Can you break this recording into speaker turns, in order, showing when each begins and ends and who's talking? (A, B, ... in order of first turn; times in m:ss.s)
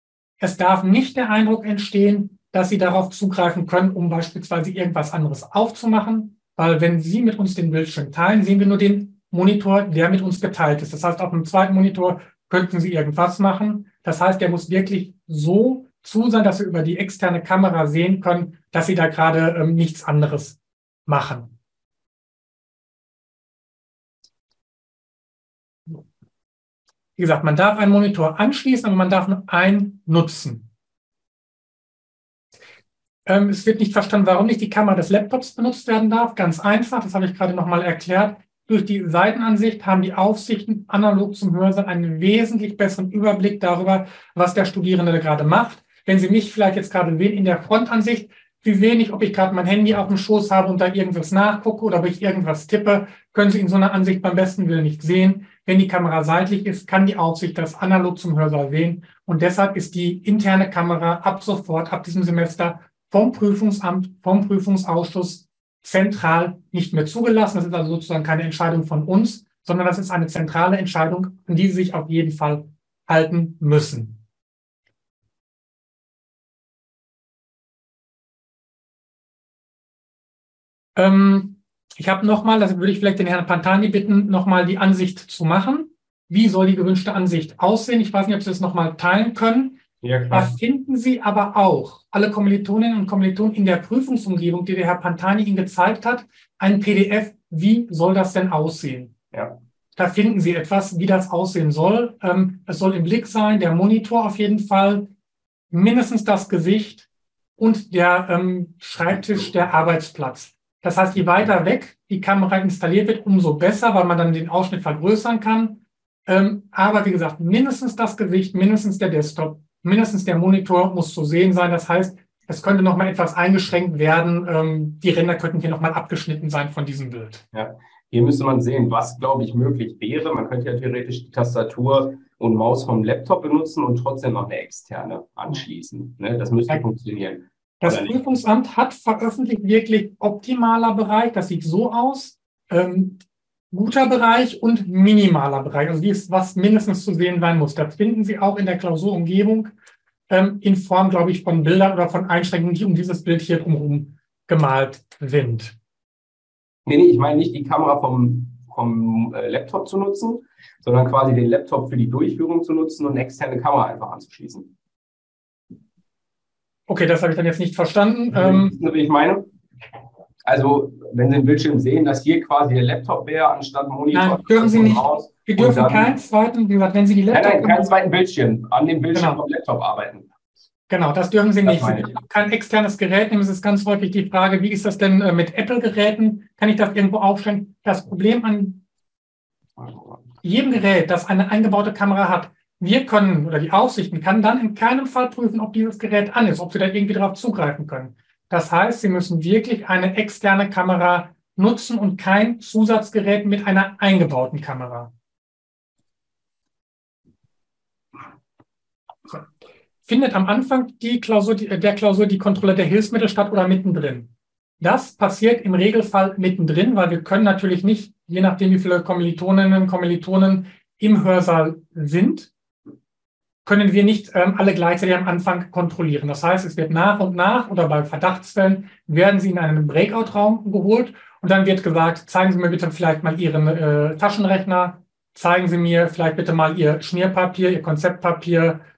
0:00.4-0:21.6 A
0:27.2-0:30.7 A
0:33.3-1:14.2 A
1:21.0-1:39.1 A
1:30.0-1:30.5 B
1:39.3-1:39.6 B
1:40.0-1:45.1 A
1:45.7-1:47.1 A
1:47.6-2:07.4 A
2:07.5-2:18.2 B
2:17.8-2:29.7 A
2:30.3-2:35.8 A
2:36.9-2:44.7 B
2:46.9-2:48.7 A
2:48.3-2:49.5 B
2:50.4-2:56.1 B
2:54.1-2:58.0 A
2:57.3-3:00.3 B
2:59.1-2:59.4 A
3:00.9-3:08.8 A
3:01.6-3:02.2 B
3:09.8-3:10.2 B
3:10.4-3:25.1 A
3:30.0-3:42.5 A
3:43.6-3:58.8 A